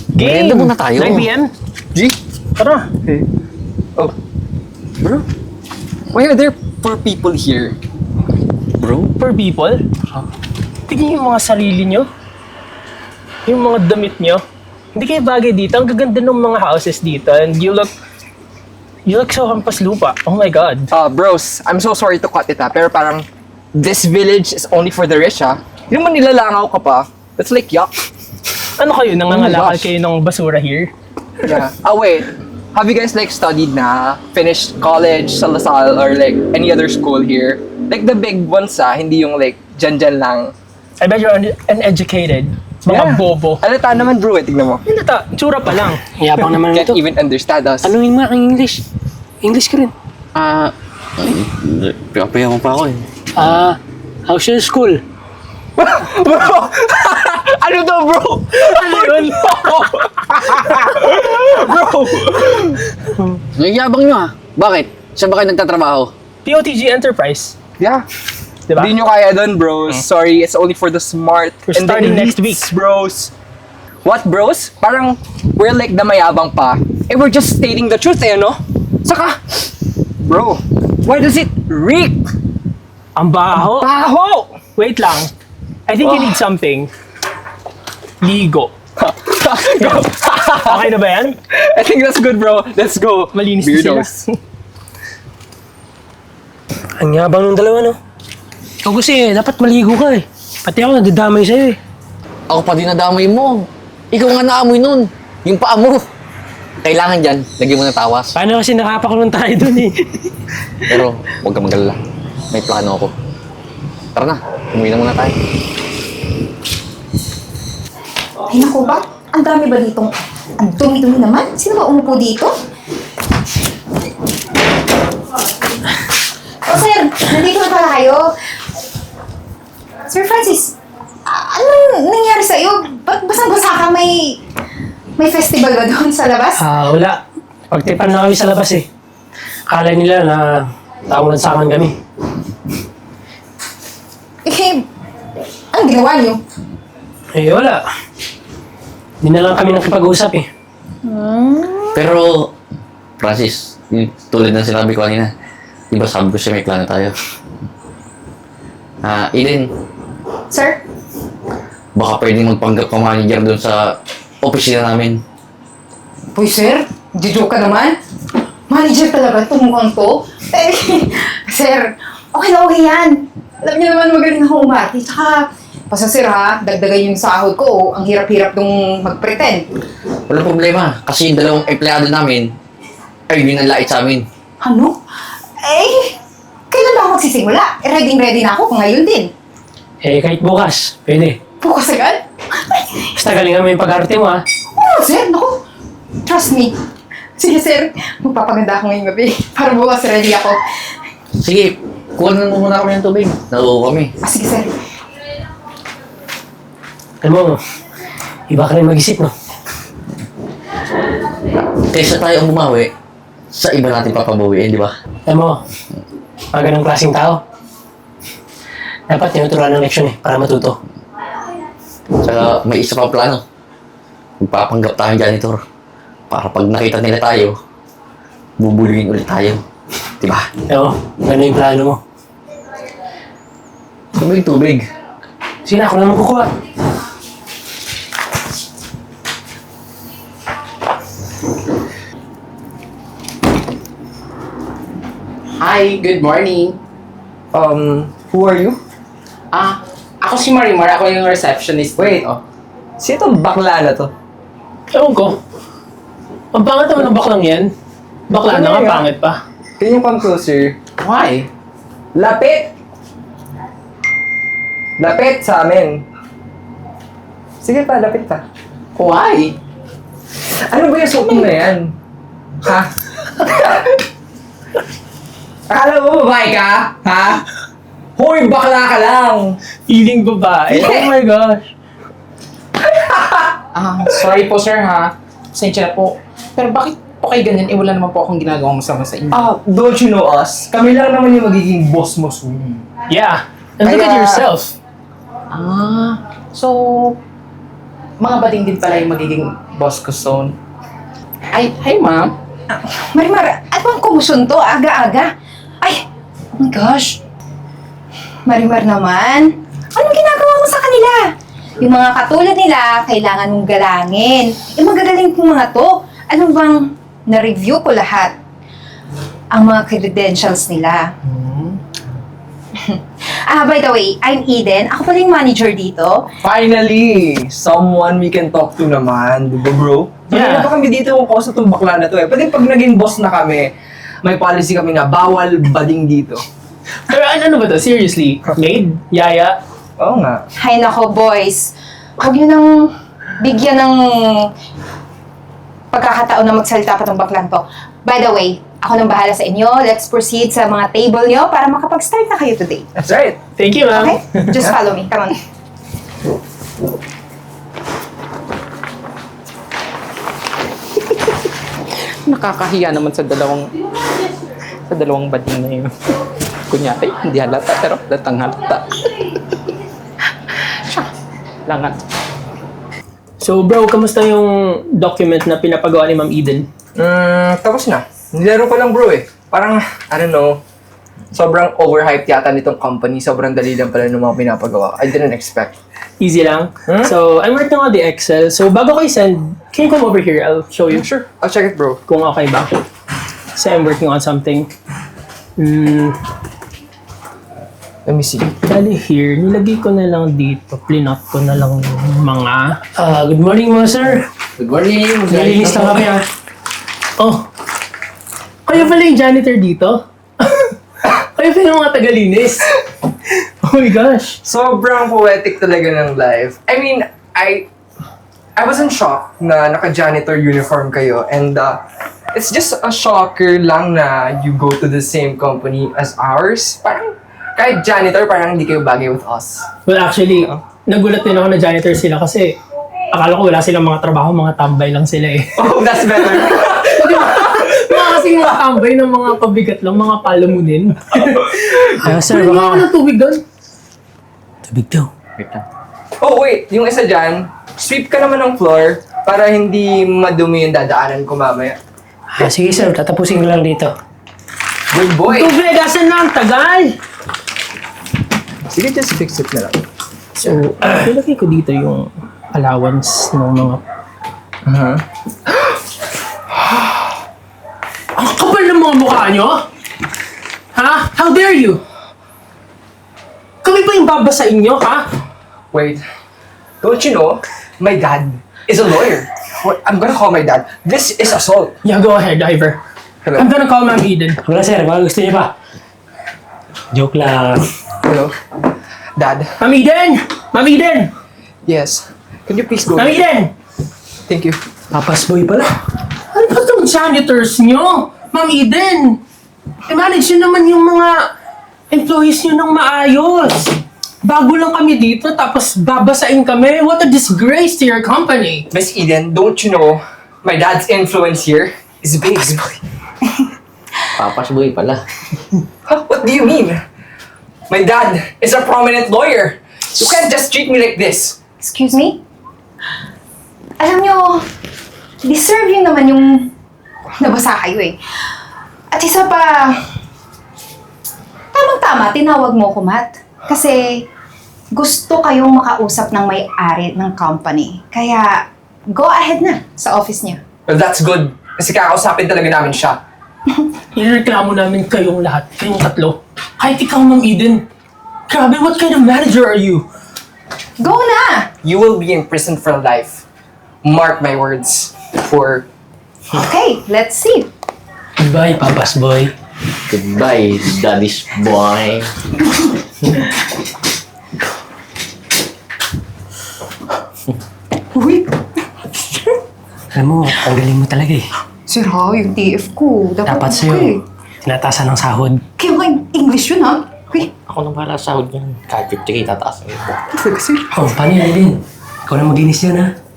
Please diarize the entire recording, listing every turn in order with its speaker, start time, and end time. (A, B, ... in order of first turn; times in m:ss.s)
0:00.1-0:01.5 A
0:00.2-0:01.3 B
0:02.6-0:02.9 A
0:06.1-0:07.8 C
0:08.7-0:09.1 B
0:09.2-0:09.8 A
0:10.9-0:12.1 A
0:13.4-0:14.4 A
0:14.9-0:17.9 A
0:19.0-0:20.9 A
0:20.9-0:27.9 C
0:28.8-0:30.9 A
0:29.3-0:29.9 C
0:31.4-0:40.5 C
0:41.0-0:43.6 A
0:42.9-0:44.8 C
0:44.8-0:46.0 A
0:46.1-0:47.0 D
0:46.6-0:47.9 C
0:47.8-0:48.8 D
0:49.4-0:49.9 D
0:50.3-0:53.0 B
0:53.4-0:55.0 D
0:55.8-1:02.8 C
0:58.5-1:02.4 A
1:03.5-1:06.1 B
1:06.4-1:07.6 A
1:07.8-1:08.0 C
1:08.7-1:08.9 A
1:08.7-1:13.3 C
1:11.7-1:12.6 A
1:14.0-1:19.6 C
1:20.2-1:22.2 C
1:23.2-1:23.9 A
1:23.5-1:24.6 C
1:24.7-1:25.3 A
1:25.9-1:26.9 A
1:26.0-1:26.4 C
1:28.2-1:28.7 A
1:29.0-1:30.9 C
1:29.8-1:31.4 A
1:31.5-1:34.2 C
1:33.3-1:34.3 A
1:37.0-1:38.0 D
1:38.8-1:41.8 D
1:42.5-1:46.0 B
1:46.8-1:48.3 B
1:48.3-1:50.3 D
1:50.9-1:52.0 B
1:52.5-1:53.1 B
1:54.1-1:55.4 B
1:58.5-2:02.5 E
2:06.6-2:08.3 E
2:10.1-2:10.8 E
2:11.3-2:14.4 E
2:15.2-2:16.6 E
2:16.6-2:18.9 D
2:19.7-2:22.0 D
2:24.4-2:24.8 E
2:25.7-2:26.4 E
2:27.3-2:27.8 D
2:29.2-2:30.5 D
2:31.0-2:32.0 E
2:31.9-2:32.5 B
2:33.2-2:35.3 B
2:35.9-2:37.1 B
2:39.0-2:39.7 B
2:40.5-2:40.8 E
2:41.9-2:45.2 B
2:46.3-2:48.0 E
2:48.7-2:59.7 E
3:00.3-3:02.5 B
3:03.3-3:04.2 B
3:04.6-3:05.0 E
3:05.6-3:06.2 E
3:06.7-3:09.3 E
3:10.0-3:11.4 D
3:11.6-3:13.1 E
3:13.2-3:14.4 D
3:14.7-3:15.6 E
3:16.2-3:16.7 E
3:17.4-3:20.6 E
3:21.4-3:24.1 B
3:24.2-3:24.7 E
3:27.2-3:27.6 D
3:28.5-3:29.3 D
3:31.8-3:32.9 B
3:33.5-3:34.9 B
3:35.2-3:35.6 D
3:36.5-3:37.4 D
3:39.1-3:40.8 D
3:42.2-3:43.4 B
3:44.4-3:45.6 B
3:46.3-3:47.6 B
3:48.6-3:49.6 B
3:50.2-3:50.5 B
3:50.7-3:52.0 D
3:54.1-3:54.9 B
3:55.6-3:56.5 D
4:05.6-4:06.8 F
4:07.5-4:08.8 C
4:09.5-4:12.4 F
4:12.0-4:12.4 C
4:13.0-4:14.1 C
4:14.9-4:15.4 A
4:16.5-4:17.7 A
4:18.3-4:19.4 A
4:18.3-4:19.1 C
4:19.8-4:20.8 C
4:21.0-4:21.5 F
4:22.1-4:22.7 C
4:25.0-4:26.0 C
4:27.6-4:28.4 C
4:29.0-4:29.6 F
4:30.4-4:32.0 C
4:32.6-4:33.9 C
4:35.7-4:37.4 C
4:38.2-4:39.6 C
4:39.9-4:41.7 A
4:40.7-4:41.1 C
4:42.8-4:43.6 C
4:43.7-4:49.4 F
4:49.3-4:52.8 C
4:53.1-4:54.7 A
4:53.8-4:54.4 C
4:55.5-4:57.2 F
4:58.2-5:00.6 F
5:01.5-5:02.3 F
5:02.9-5:05.3 E
5:06.6-5:07.2 E
5:08.4-5:11.3 E
5:11.8-5:18.3 E
5:19.5-5:21.0 E
5:22.8-5:26.2 E
5:26.4-5:33.7 C
5:30.3-5:30.7 A
5:34.2-5:36.4 C
5:37.0-5:39.6 A
5:40.0-5:40.4 C
5:40.6-5:44.5 E
5:45.9-5:52.9 E
5:53.0-5:53.4 C
5:53.6-5:54.5 A
5:53.9-5:55.4 E
6:02.2-6:03.7 F
6:04.9-6:05.9 F
6:06.7-6:08.8 F
6:11.7-6:12.0 F
6:13.4-6:16.7 A
6:17.0-6:20.6 C
6:21.3-6:25.8 C
6:26.2-6:31.0 A
6:26.8-6:27.1 C
6:30.9-6:32.0 C
6:32.1-6:32.7 A
6:33.5-6:34.7 A
6:35.6-6:36.2 A
6:38.0-6:38.6 C
6:38.6-6:42.8 A
6:43.0-6:44.2 D
6:44.6-6:46.0 B
6:45.3-6:46.2 D
6:47.2-6:47.4 A
6:48.6-6:52.7 A
6:53.6-6:54.4 A
6:54.4-6:57.7 C
6:58.6-7:01.8 C
7:02.3-7:09.7 C
7:09.8-7:12.6 A
7:13.1-7:15.7 A
7:15.6-7:17.7 C
7:16.3-7:23.4 A
7:22.0-7:22.9 D
7:24.7-7:25.1 D
7:25.4-7:25.6 B
7:26.2-7:31.8 C
7:32.3-7:33.9 D
7:34.9-7:35.5 C
7:35.3-7:36.9 A
7:38.7-7:39.8 C
7:40.4-7:43.8 A
7:44.6-7:45.0 C
7:48.1-7:49.6 A
7:50.7-7:51.8 A
7:53.6-7:55.1 A
7:55.7-7:56.0 C
7:56.8-8:01.8 C
8:01.8-8:02.8 A
8:03.4-8:04.4 A
8:04.4-8:05.5 D
8:06.9-8:07.6 D
8:08.0-8:08.3 C
8:09.2-8:09.5 C
8:09.6-8:11.1 A
8:11.6-8:13.2 C
8:12.9-8:13.5 A
8:14.2-8:14.6 C
8:14.9-8:15.7 D
8:16.3-8:19.2 A
8:19.9-8:21.2 A
8:21.9-8:28.6 A
8:28.7-8:32.8 C
8:34.2-8:35.0 B
8:35.8-8:36.8 C
8:37.7-8:41.4 C
8:41.6-8:42.2 E
8:43.8-8:44.4 E
8:45.2-8:46.5 E
8:47.2-8:48.0 E
8:48.9-8:49.8 E
8:51.5-8:54.0 E
8:54.7-9:00.4 E
9:00.7-9:03.0 C
9:03.9-9:07.6 A
9:08.3-9:09.9 A
9:10.8-9:11.5 E
9:11.6-9:13.2 C
9:13.8-9:15.6 C
9:16.3-9:17.5 E
9:18.2-9:19.3 D
9:19.9-9:22.1 B
9:27.9-9:28.4 E
9:28.9-9:29.3 E
9:29.9-9:31.3 D
9:31.7-9:34.0 E
9:33.2-9:35.4 D
9:35.6-9:37.3 E
9:37.2-9:40.0 B
9:40.1-9:40.8 E
9:40.7-9:42.9 D